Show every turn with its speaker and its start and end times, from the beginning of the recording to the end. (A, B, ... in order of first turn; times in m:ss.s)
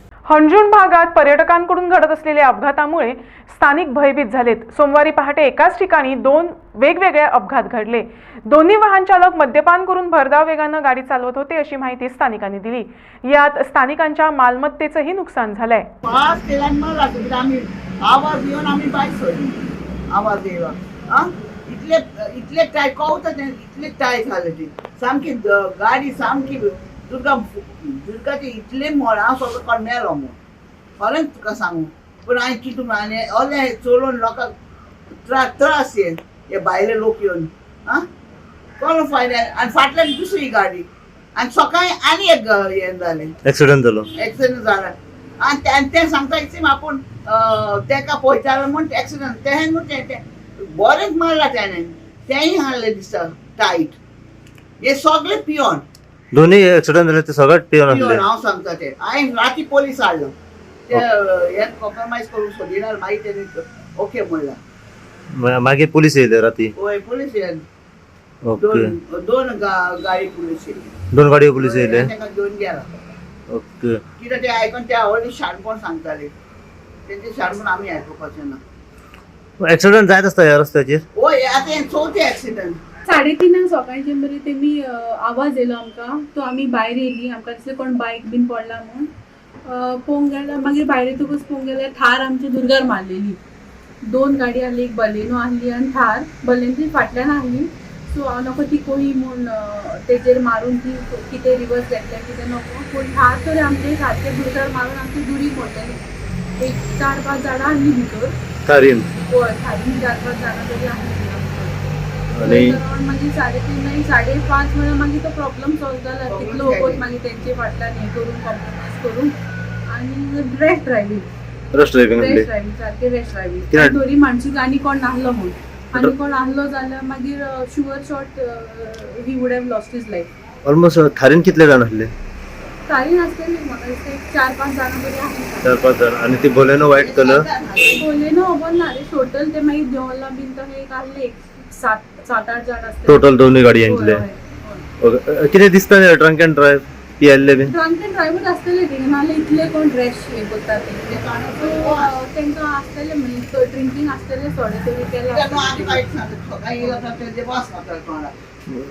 0:00.3-0:15.9 A
0:16.0-0:30.3 B
0:31.0-0:34.5 B
0:35.2-0:38.0 B
0:38.8-0:43.3 B
0:43.4-0:44.1 C
0:44.1-0:54.0 B
0:54.8-0:55.8 B
0:56.3-0:58.2 C
0:57.9-1:00.3 B
1:00.9-1:04.6 B
1:05.4-1:06.7 C
1:06.8-1:07.6 B
1:08.4-1:08.9 C
1:08.6-1:10.9 B
1:11.1-1:12.1 C
1:11.5-1:12.9 B
1:13.5-1:14.0 C
1:14.2-1:16.3 B
1:17.1-1:18.6 B
1:19.6-1:21.0 C
1:21.1-1:22.8 B
1:23.1-1:29.1 D
1:29.6-1:33.4 D
1:34.0-1:46.0 D
1:46.6-1:48.3 D
1:48.6-1:49.0 C
1:49.1-1:59.3 D
1:52.3-1:52.8 C
1:56.3-1:57.0 B
1:59.9-2:01.3 D
2:01.7-2:02.5 C
2:02.1-2:10.3 D
2:10.6-2:12.1 C
2:12.9-2:15.7 D
2:15.6-2:17.4 C
2:16.8-2:18.0 B
2:17.9-2:24.8 D
2:23.1-2:24.2 C
2:25.0-2:27.7 C
2:27.7-2:36.0 D
2:31.0-2:32.1 B
2:35.3-2:38.3 B